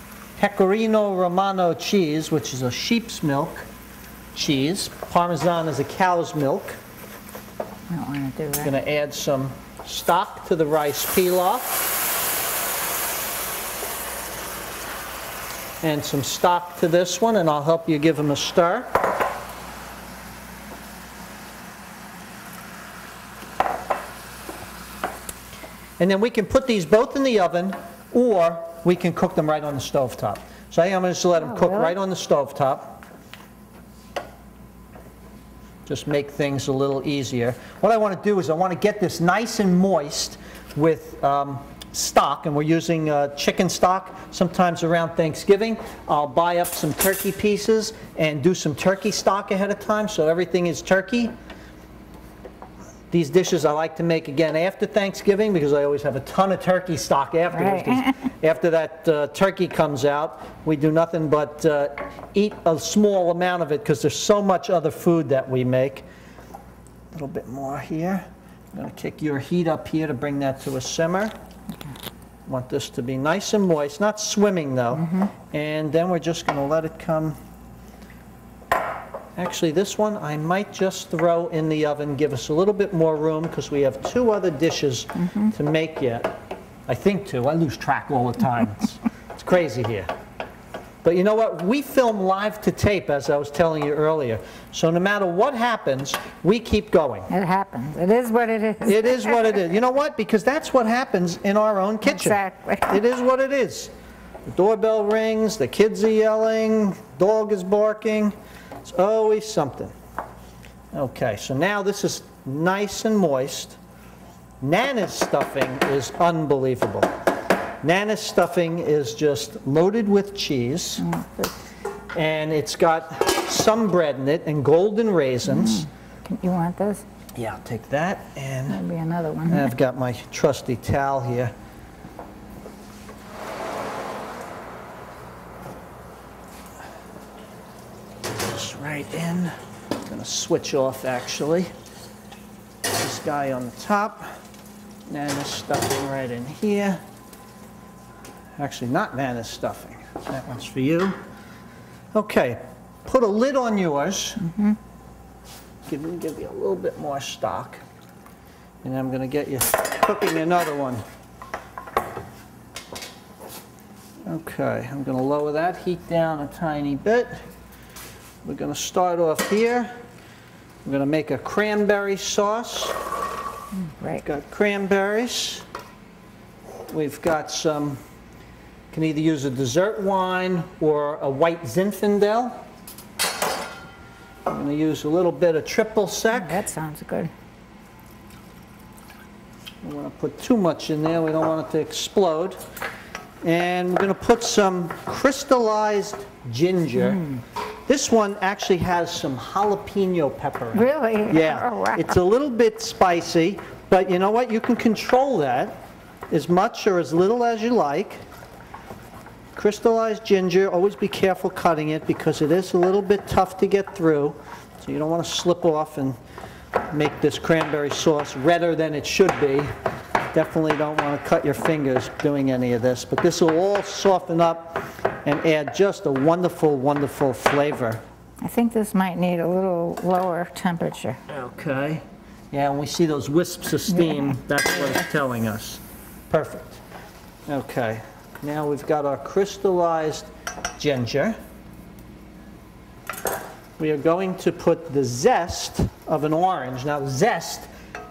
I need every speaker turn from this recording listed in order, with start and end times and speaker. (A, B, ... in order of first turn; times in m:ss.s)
0:00.4-0:03.6 A
0:04.3-0:06.8 A
0:07.9-0:08.7 B
0:08.6-0:11.8 A
0:15.8-0:18.9 A
0:26.0-0:33.0 A
0:31.4-0:31.9 B
0:35.8-0:51.3 A
0:53.1-1:06.0 A
0:57.5-0:58.2 B
1:07.1-1:11.3 A
1:12.4-1:17.4 A
1:19.4-1:26.3 A
1:26.9-1:30.1 A
1:31.0-1:37.3 A
1:37.3-1:39.6 B
1:38.8-1:43.9 A
1:42.0-1:43.0 B
1:44.4-1:49.9 A
1:50.9-1:53.8 A
1:54.6-1:57.1 A
1:57.8-2:01.0 A
2:01.0-2:01.5 B
2:02.1-2:05.9 A
2:05.4-2:07.0 B
2:07.4-2:08.8 A
2:08.7-2:09.7 B
2:09.5-2:11.5 A
2:18.3-2:21.7 A
2:22.9-2:24.3 A
2:25.1-2:27.0 A
2:28.6-2:31.2 A
2:32.1-2:34.5 A
2:34.5-2:34.8 B
2:35.8-2:37.8 A
2:38.8-2:41.0 A
2:44.2-2:47.4 A
2:48.4-2:49.9 A
2:50.8-2:53.0 A
2:53.8-2:54.2 B
2:54.2-2:55.6 A
2:56.9-2:58.0 A
2:58.9-3:02.6 A
3:04.4-3:06.6 A
3:06.3-3:07.3 B
3:09.8-3:12.6 A
3:13.4-3:17.2 A
3:17.0-3:17.4 B
3:17.9-3:25.8 A
3:20.7-3:22.2 B
3:26.3-3:28.2 A
3:29.6-3:36.2 A
3:36.9-3:39.7 A
3:40.3-3:48.0 A
3:48.4-3:51.2 B
3:51.3-3:56.8 A
3:53.9-3:54.3 B
3:57.5-4:01.4 A
4:03.8-4:07.7 A